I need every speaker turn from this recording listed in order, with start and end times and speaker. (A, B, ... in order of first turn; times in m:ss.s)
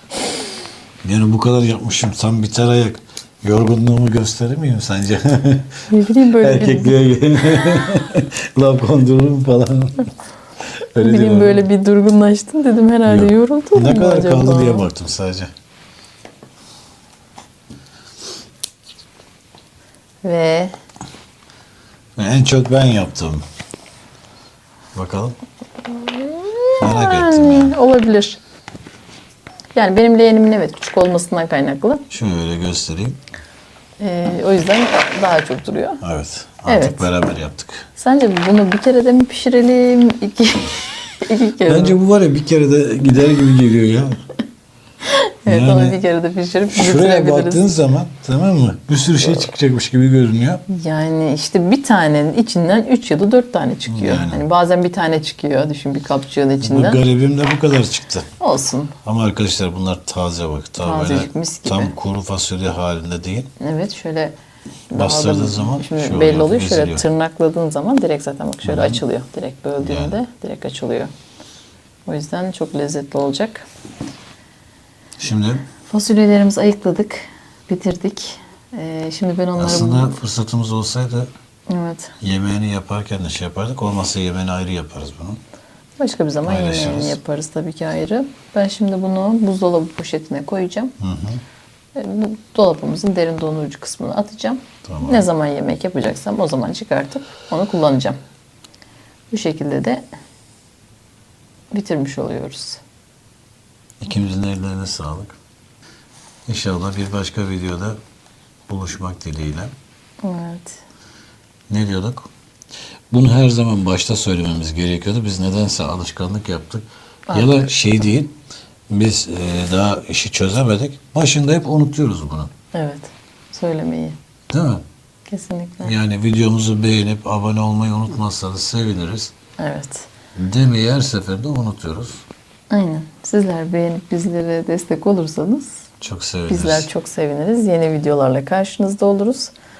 0:01.0-0:10.1 A
0:05.9-0:07.0 B
0:10.9-0:11.7 A
0:11.0-0:14.9 B
0:13.0-0:15.5 A
0:20.2-0:20.7 B
0:22.2-0:23.4 A
0:24.9-0:25.4 A
0:25.9-0:28.4 B
0:26.8-0:27.8 A
0:29.7-0:32.0 B
0:32.1-0:33.2 A
0:34.0-0:36.0 B
0:36.0-0:37.9 A
0:36.6-0:37.1 B
0:38.0-0:42.0 B
0:41.6-0:44.2 A
0:45.0-0:47.6 B
0:45.4-0:46.0 A
0:46.7-0:50.6 A
0:50.7-0:57.0 B
0:53.9-0:54.4 A
0:56.6-0:58.3 A
0:58.4-0:58.9 B
0:59.0-1:03.5 A
1:00.8-1:01.9 B
1:03.6-1:04.4 B
1:04.9-1:11.1 B
1:04.9-1:07.0 A
1:08.6-1:09.0 A
1:09.8-1:10.2 A
1:12.0-1:13.6 B
1:15.2-1:15.6 A
1:15.8-1:20.2 B
1:19.6-1:21.3 A
1:21.7-1:22.1 B
1:22.2-1:25.4 A
1:26.0-1:30.9 B
1:26.4-1:27.2 A
1:31.0-1:31.4 A
1:31.9-1:38.2 B
1:34.8-1:35.2 A
1:39.3-1:40.0 B
1:41.7-1:42.8 B
1:44.0-1:45.4 A
1:46.5-1:48.0 A
1:48.7-1:49.7 A
1:50.2-1:50.8 B
1:51.7-1:52.3 A
1:53.1-1:58.4 A
1:57.3-1:57.7 B
1:58.9-2:02.5 A
2:02.7-2:04.2 B
2:04.5-2:04.8 A
2:05.3-2:05.9 B
2:05.8-2:09.3 A
2:09.6-2:10.1 B
2:10.4-2:12.2 A
2:12.7-2:15.8 B
2:16.0-2:16.9 A
2:16.5-2:19.5 B